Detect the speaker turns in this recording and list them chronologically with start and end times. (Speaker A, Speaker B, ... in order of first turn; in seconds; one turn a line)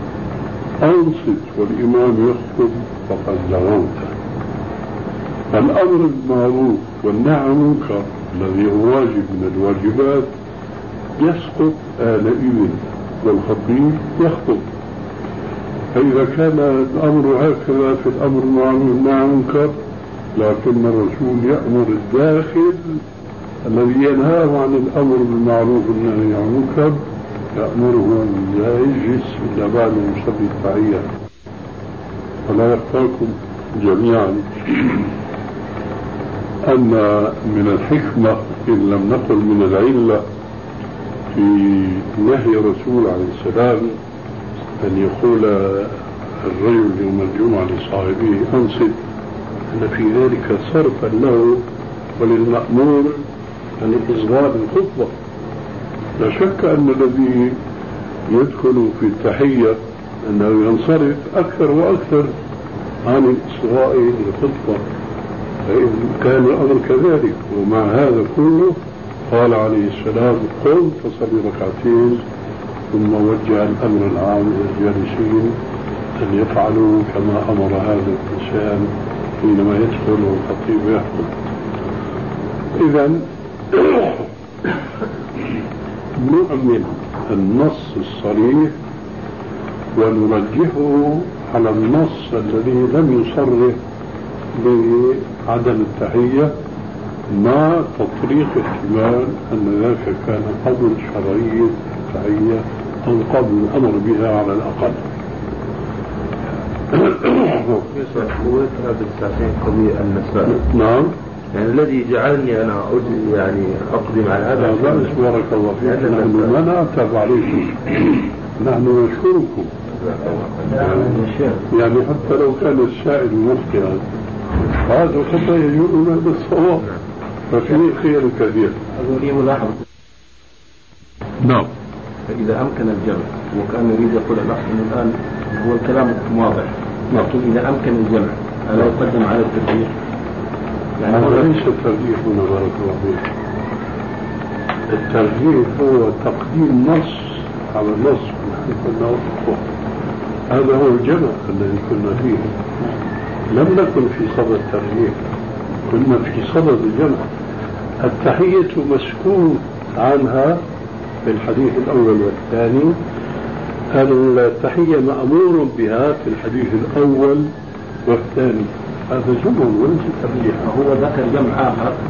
Speaker A: 0.8-4.1
Speaker A: 5.5-10.3
Speaker A: 11.2-14.7
Speaker A: 15.9-19.8
Speaker A: 20.4-23.0
Speaker A: 23.6-27.0
Speaker A: 27.6-31.1
Speaker A: 32.5-35.1
Speaker A: 36.6-40.2
Speaker A: 41.3-44.0
Speaker A: 44.8-49.0
Speaker A: 49.7-51.6
Speaker A: 52.2-53.2
Speaker A: 53.8-55.2
Speaker A: 56.2-57.6
Speaker A: 58.3-62.3
Speaker A: 63.0-64.8
Speaker A: 65.7-72.2
Speaker A: 72.9-75.6
Speaker A: 76.2-81.3
Speaker A: 82.8-84.3
Speaker A: 86.2-88.8
Speaker A: 90.0-93.8
Speaker A: 94.5-96.5
Speaker A: 97.3-105.0
Speaker A: 107.0-107.8
Speaker B: 107.9-110.5
Speaker A: 110.5-111.2
Speaker B: 111.5-115.1
Speaker A: 114.5-119.7
Speaker B: 115.8-116.5
Speaker B: 120.0-120.9
Speaker C: 120.7-121.7
Speaker A: 121.7-124.0
Speaker A: 124.7-126.9
Speaker A: 127.5-128.8
Speaker C: 129.0-129.8
Speaker A: 131.4-131.7
Speaker C: 132.3-139.9
Speaker C: 141.0-141.5
Speaker A: 141.1-143.3
Speaker A: 144.9-149.7
Speaker A: 150.5-152.7
Speaker A: 153.5-155.2
Speaker A: 155.9-157.3
Speaker A: 158.0-160.6
Speaker A: 161.2-163.0
Speaker A: 163.9-167.5
Speaker A: 168.1-170.7
Speaker C: 170.6-172.0